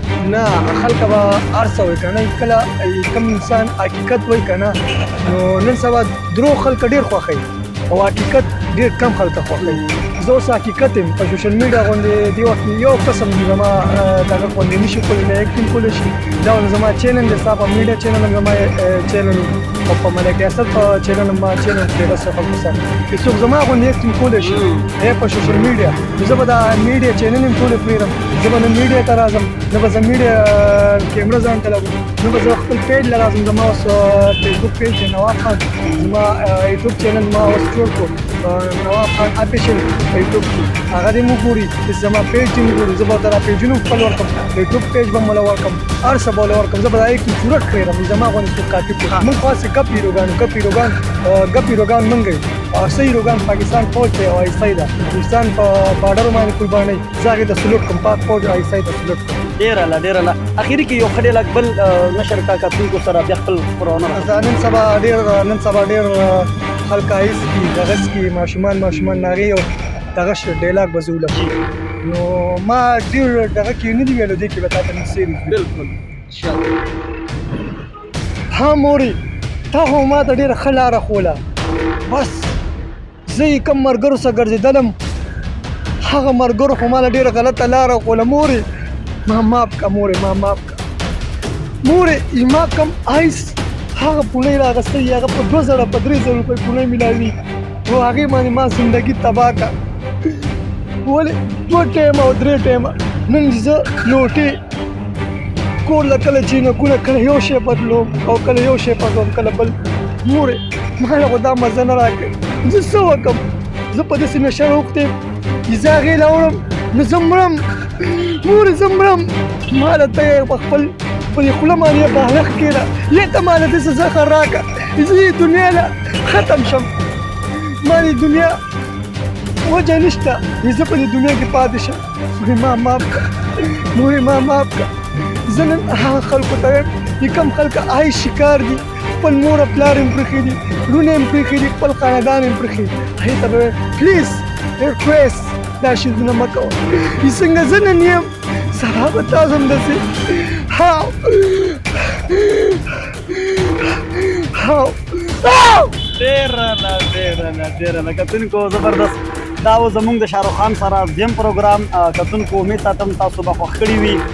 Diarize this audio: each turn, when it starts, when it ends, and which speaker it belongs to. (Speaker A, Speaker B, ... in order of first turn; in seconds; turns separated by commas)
Speaker A: 0.2-59.4, Speaker B: 9.6-10.1, Speaker B: 24.4-24.9, Speaker B: 35.8-36.1, Speaker B: 59.5-64.5, Speaker A: 64.1-71.4, Speaker B: 68.9-69.4, Speaker A: 72.0-75.6, Speaker B: 75.5-76.7, Speaker A: 78.5-79.2, Speaker A: 79.7-81.4, Speaker A: 82.1-82.6, Speaker A: 83.3-84.9, Speaker A: 86.0-88.6, Speaker A: 89.3-90.8, Speaker A: 91.8-97.3, Speaker A: 97.9-99.7, Speaker A: 101.0-104.6, Speaker A: 105.9-115.1, Speaker A: 115.7-126.9, Speaker A: 127.8-128.5, Speaker A: 129.7-134.9, Speaker A: 135.5-155.9, Speaker B: 156.2-164.2